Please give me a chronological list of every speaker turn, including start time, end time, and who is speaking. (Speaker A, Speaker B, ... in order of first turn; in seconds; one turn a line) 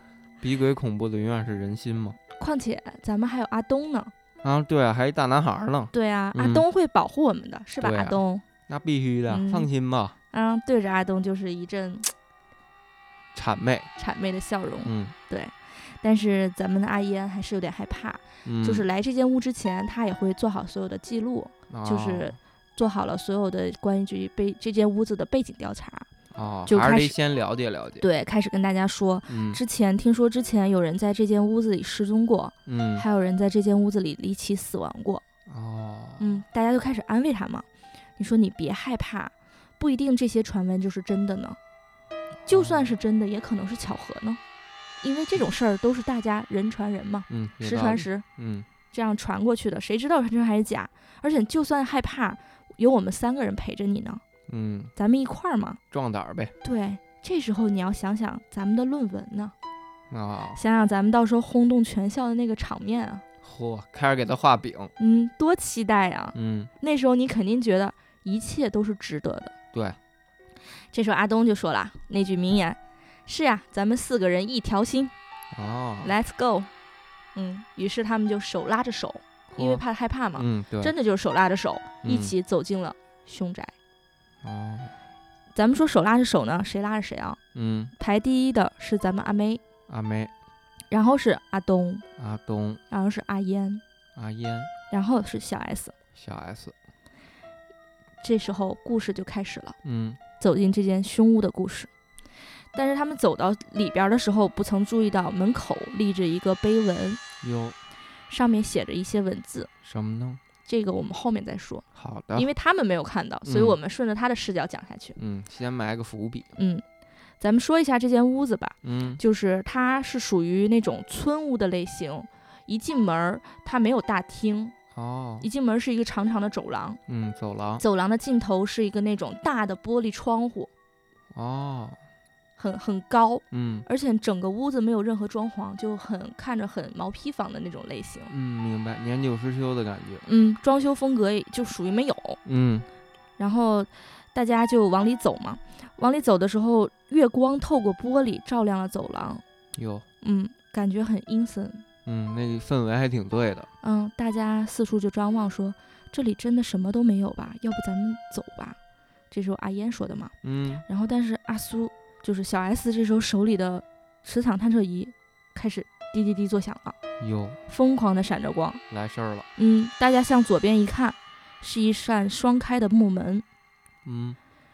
Speaker A: 0.4-2.2
Speaker B: 2.4-4.1
Speaker A: 4.4-6.6
Speaker B: 5.9-8.4
Speaker A: 7.8-10.2
Speaker B: 9.3-9.7
Speaker B: 10.3-12.1
Speaker A: 13.3-13.9
Speaker B: 14.0-26.1
Speaker A: 14.8-15.1
Speaker A: 18.4-18.9
Speaker A: 21.7-22.4
Speaker A: 26.3-28.0
Speaker B: 26.7-27.1
Speaker B: 28.0-35.2
Speaker A: 29.3-29.6
Speaker A: 32.6-33.0
Speaker A: 35.5-36.4
Speaker B: 36.2-37.6
Speaker B: 38.2-41.6
Speaker A: 42.4-42.9
Speaker B: 42.5-44.4
Speaker B: 45.0-48.2
Speaker A: 47.3-48.7
Speaker B: 48.9-54.2
Speaker A: 54.5-54.9
Speaker B: 55.0-55.8
Speaker A: 55.9-56.5
Speaker B: 56.6-59.5
Speaker A: 60.1-60.6
Speaker B: 60.5-63.2
Speaker A: 63.4-64.9
Speaker B: 65.0-69.5
Speaker A: 66.3-66.7
Speaker A: 69.7-70.0
Speaker B: 70.9-75.1
Speaker A: 75.5-76.1
Speaker B: 76.0-76.7
Speaker B: 77.3-83.7
Speaker A: 79.5-79.8
Speaker A: 80.3-80.9
Speaker A: 82.0-82.3
Speaker A: 84.4-84.9
Speaker B: 85.5-87.4
Speaker A: 87.5-87.9
Speaker B: 88.0-89.6
Speaker A: 89.9-90.3
Speaker B: 90.9-92.0
Speaker A: 92.2-92.8
Speaker B: 92.9-93.8
Speaker A: 94.2-94.7
Speaker B: 94.9-95.9
Speaker A: 96.1-96.7
Speaker B: 98.2-99.8
Speaker A: 99.8-100.2
Speaker B: 100.4-101.9
Speaker B: 102.7-107.2
Speaker A: 107.4-107.8
Speaker B: 108.3-109.7
Speaker A: 109.8-110.4
Speaker B: 110.6-115.2
Speaker A: 111.9-112.5
Speaker A: 113.5-113.8
Speaker A: 115.2-116.5
Speaker B: 116.6-116.8
Speaker B: 117.4-124.7
Speaker A: 118.8-119.2
Speaker A: 124.9-125.5
Speaker B: 125.4-127.0
Speaker A: 127.1-127.8
Speaker B: 127.8-130.7
Speaker A: 131.3-132.0
Speaker B: 132.6-138.3
Speaker A: 133.5-133.8
Speaker A: 138.3-140.2
Speaker B: 140.2-142.4
Speaker A: 142.4-142.9
Speaker B: 143.4-149.4
Speaker A: 149.7-150.1
Speaker B: 150.2-151.8
Speaker A: 152.1-153.7
Speaker B: 153.8-158.8
Speaker B: 159.3-160.3
Speaker A: 160.4-160.8
Speaker B: 160.9-166.9
Speaker A: 167.2-167.6
Speaker B: 167.7-168.8
Speaker A: 168.9-169.5
Speaker B: 169.6-173.4
Speaker A: 174.0-174.4